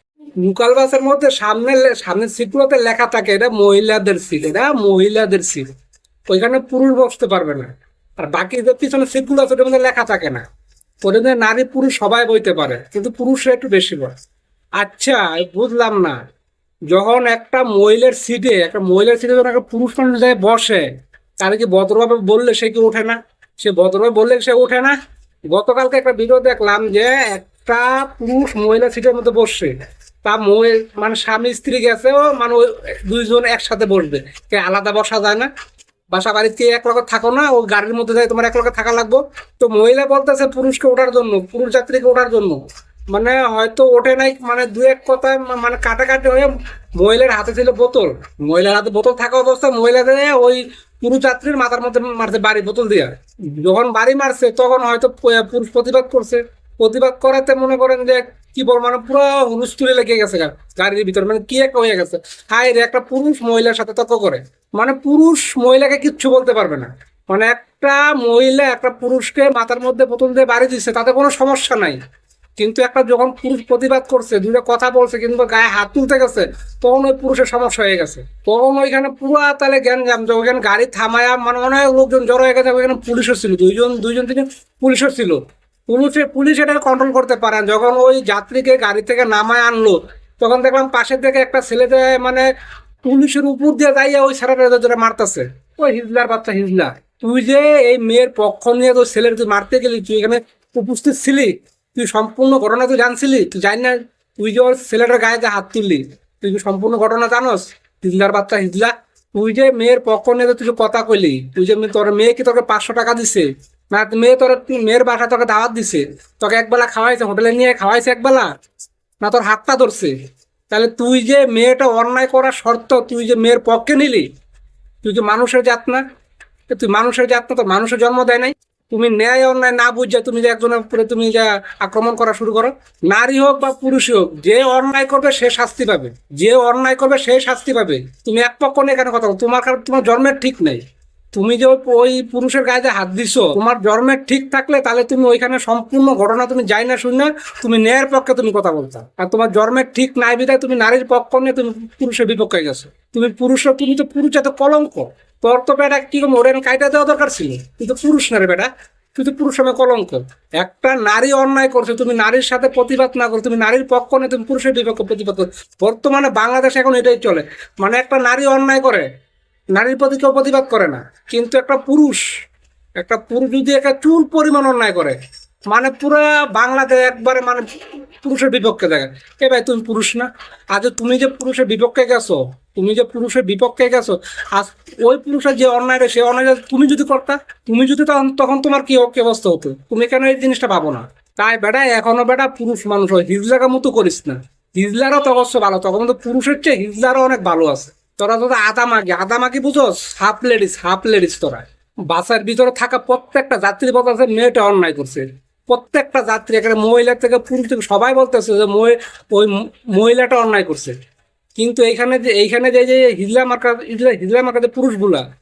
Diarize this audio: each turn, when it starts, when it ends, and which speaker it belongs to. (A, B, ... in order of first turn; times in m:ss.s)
0:00.4-0:05.7 A
0:06.3-0:10.4 A
0:11.0-0:14.1 A
0:14.8-0:16.2 A
0:16.9-0:20.9 A
0:21.4-0:25.0 A
0:25.5-0:35.5 A
0:36.1-1:12.0 A
1:12.6-1:32.5 A
1:33.0-1:58.5 A
1:59.2-2:00.1 A
2:00.7-2:04.3 A
2:05.0-2:06.0 A
2:06.7-2:20.8 A
2:21.3-2:49.1 A
2:49.7-2:52.2 A
2:53.0-2:55.2 A
2:55.7-2:57.6 A
2:58.2-3:31.0 A
3:31.6-3:35.2 A